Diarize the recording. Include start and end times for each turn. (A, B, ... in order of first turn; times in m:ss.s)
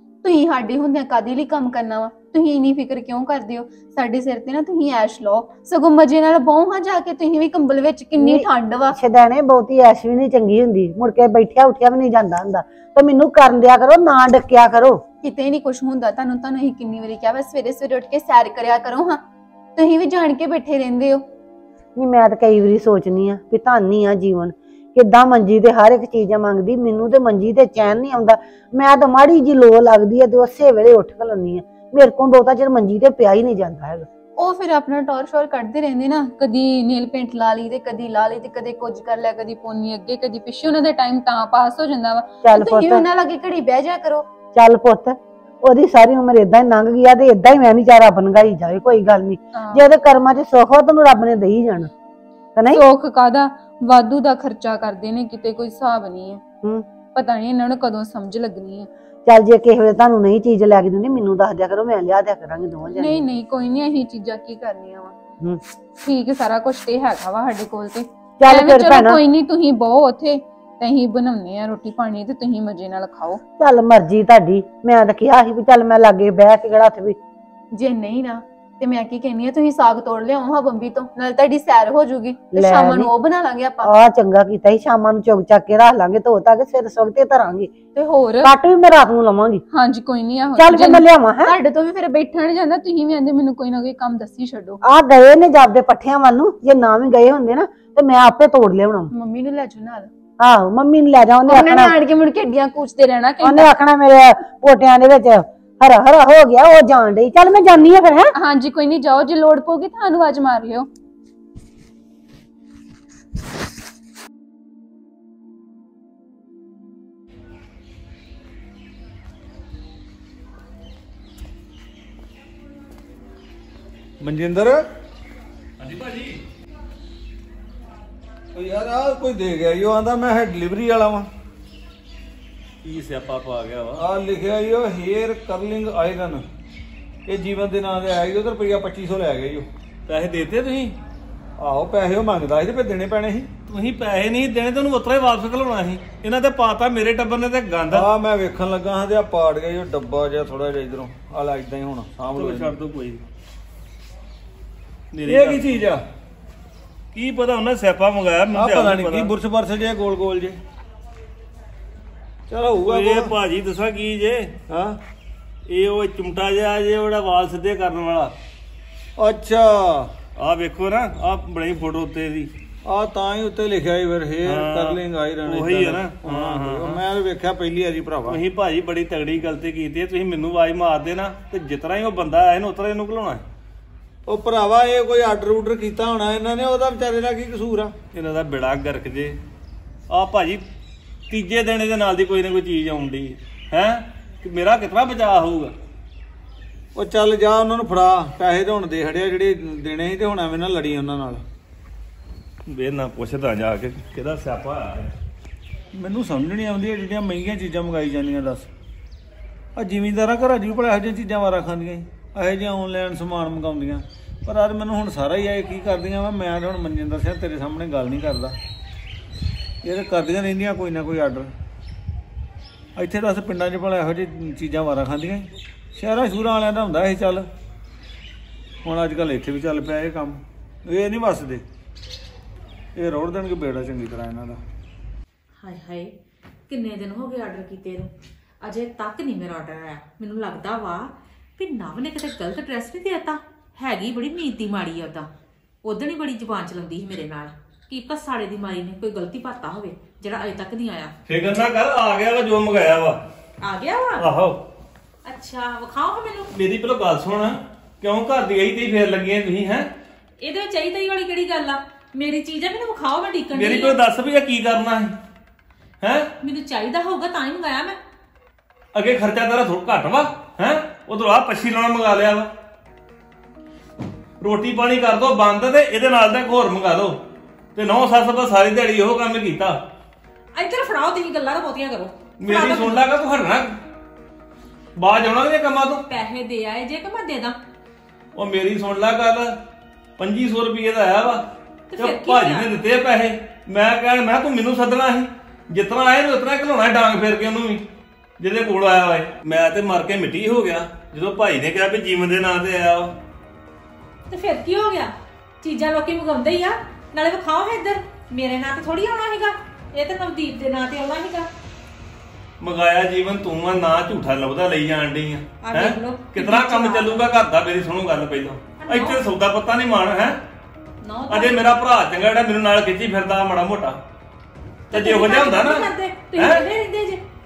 0:00.2-0:09.0 A
0:08.2-0:15.0 B
0:15.2-0:19.2 A
0:19.8-0:21.2 A
0:22.0-0:34.0 B
0:34.4-0:44.3 A
0:42.4-0:43.0 B
0:44.5-0:51.9 B
0:52.6-0:52.8 B
0:52.7-0:56.4 A
0:57.1-0:58.9 A
0:59.2-1:03.2 B
1:02.9-1:05.1 A
1:06.0-1:13.4 A
1:08.4-1:09.2 B
1:13.6-1:17.2 B
1:17.7-1:23.9 A
1:22.5-1:23.1 B
1:23.8-1:27.7 B
1:27.9-1:28.5 A
1:28.4-1:29.6 B
1:29.7-1:34.8 A
1:30.6-1:31.6 B
1:34.8-1:39.1 B
1:39.1-1:40.1 A
1:40.4-1:42.0 B
1:41.4-1:43.7 A
1:43.4-1:48.3 B
1:48.4-1:50.9 A
2:04.2-2:04.8 C
2:05.8-2:06.4 D
2:08.5-2:11.3 C
2:12.8-2:14.0 D
2:14.0-2:16.4 C
2:17.3-2:19.7 C
2:20.1-2:21.0 D
2:21.6-2:23.5 C
2:23.7-2:28.0 D
2:27.9-2:32.7 C
2:32.3-2:33.2 D
2:35.1-2:35.8 D
2:35.2-2:36.0 C
2:37.1-2:39.3 D
2:38.5-2:40.6 C
2:42.5-2:43.3 C
2:42.8-2:44.5 D
2:44.7-2:45.0 C
2:45.7-2:48.4 D
2:49.2-2:50.1 C
2:50.4-2:52.5 D
2:52.8-2:58.4 C
2:54.4-2:57.0 D
2:58.3-3:03.4 D
3:04.2-3:07.9 C
3:08.1-3:09.4 D
3:10.1-3:10.6 D
3:11.3-3:15.7 D
3:16.9-3:21.4 C
3:22.7-3:25.1 D
3:25.9-3:28.7 C
3:29.8-3:38.6 C
3:39.8-3:41.5 C
3:43.0-3:47.5 C
3:48.8-3:51.6 C
3:53.0-3:54.6 C
3:55.6-3:56.1 E
3:56.7-4:05.3 E
4:05.8-4:11.1 E
4:11.3-4:13.2 D
4:13.6-4:14.2 E
4:14.2-4:14.6 D
4:15.2-4:16.5 E
4:16.5-4:19.9 D
4:20.4-4:24.0 E
4:23.5-4:25.2 D
4:26.0-4:26.3 D
4:26.4-4:28.0 E
4:28.9-4:32.5 D
4:34.4-4:37.2 D
4:37.7-4:39.8 D
4:40.5-4:43.0 E
4:42.4-4:43.8 D
4:45.0-4:46.0 D
4:46.0-4:47.6 E
4:48.3-4:49.6 D
4:50.2-4:51.4 D
4:51.9-4:52.7 E
4:52.0-4:57.8 D
4:58.4-5:03.1 D
5:04.3-5:11.5 E
5:12.6-5:20.4 D
5:15.6-5:17.2 E
5:18.8-5:19.2 E
5:21.0-5:21.7 E
5:21.3-5:24.0 D
5:24.9-5:26.6 D
5:24.9-5:27.2 E